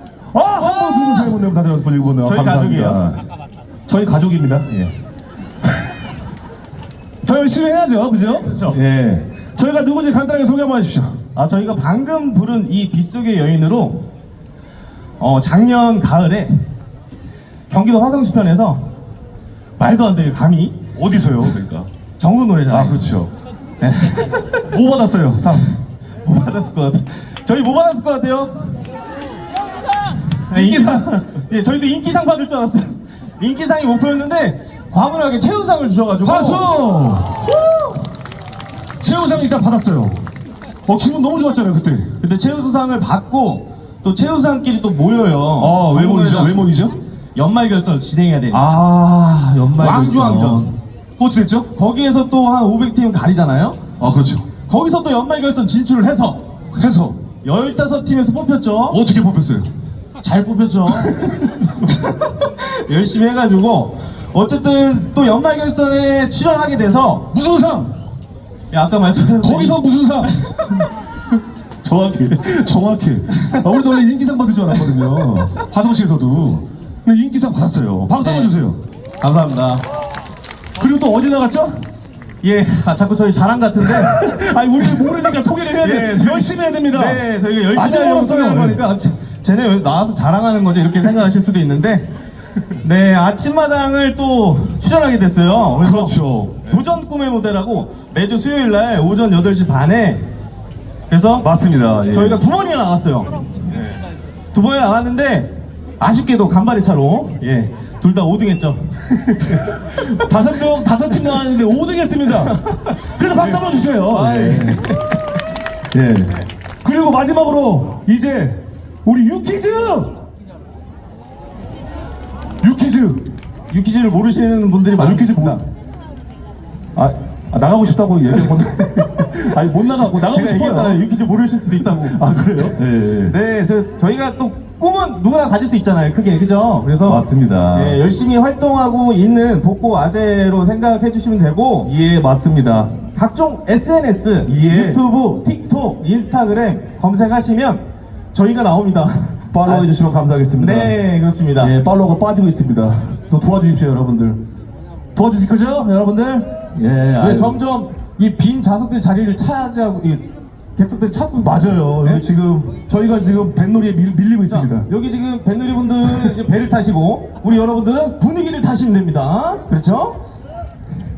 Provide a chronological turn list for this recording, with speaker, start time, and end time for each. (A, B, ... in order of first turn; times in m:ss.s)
0:00.3-0:03.2 A
0:00.6-0:01.3 B
0:02.2-0:03.0 B
0:03.9-0:04.9 A
0:07.2-0:11.2 A
0:08.4-0:08.8 B
0:11.3-0:14.1 B
0:15.2-0:16.5 B
0:17.7-0:18.8 B
0:19.8-0:20.7 B
0:20.9-0:21.9 A
0:22.2-0:23.1 B
0:22.7-0:23.3 A
0:23.8-0:24.7 B
0:24.7-0:25.7 A
0:26.2-0:28.6 B
0:30.5-0:36.7 B
0:30.5-0:31.3 A
0:36.2-0:37.5 A
0:37.4-0:38.0 B
0:39.0-0:40.2 A
0:40.8-0:42.1 A
0:42.2-0:46.6 B
0:45.6-0:47.0 A
0:47.3-0:48.7 B
0:48.5-0:51.7 A
0:49.8-0:50.7 B
0:51.7-0:53.8 B
0:54.0-0:54.4 A
0:54.7-0:56.4 B
0:56.7-0:57.2 A
0:57.4-0:59.0 B
0:58.9-0:59.7 A
1:00.2-1:01.2 B
1:01.0-1:01.5 A
1:01.8-1:07.3 B
1:07.3-1:07.9 A
1:08.7-1:10.7 B
1:09.4-1:10.7 A
1:11.8-1:18.8 A
1:13.3-1:13.6 B
1:18.2-1:18.5 B
1:19.2-1:19.8 B
1:20.8-1:21.8 A
1:22.4-1:24.1 B
1:23.8-1:28.8 A
1:25.8-1:32.1 B
1:32.8-1:36.1 B
1:35.8-1:36.8 A
1:36.6-1:40.2 B
1:41.1-1:41.5 B
1:41.4-1:42.4 A
1:42.1-1:43.4 B
1:44.5-1:49.0 B
1:49.2-1:54.9 A
1:52.4-1:55.0 B
1:55.9-2:00.1 A
2:02.6-2:03.3 A
2:03.7-2:05.6 B
2:05.0-2:05.6 A
2:07.0-2:11.0 A
2:10.3-2:12.2 B
2:11.8-2:13.4 A
2:13.2-2:21.9 B
2:17.0-2:18.0 A
2:21.8-2:23.0 A
2:23.1-2:27.8 B
2:24.4-2:25.0 A
2:28.3-2:29.9 B
2:29.5-2:30.9 A
2:30.6-2:31.7 B
2:31.6-2:34.4 A
2:35.1-2:37.6 A
2:37.2-2:40.2 B
2:40.8-2:42.2 B
2:41.4-2:44.9 A
2:44.4-2:50.2 B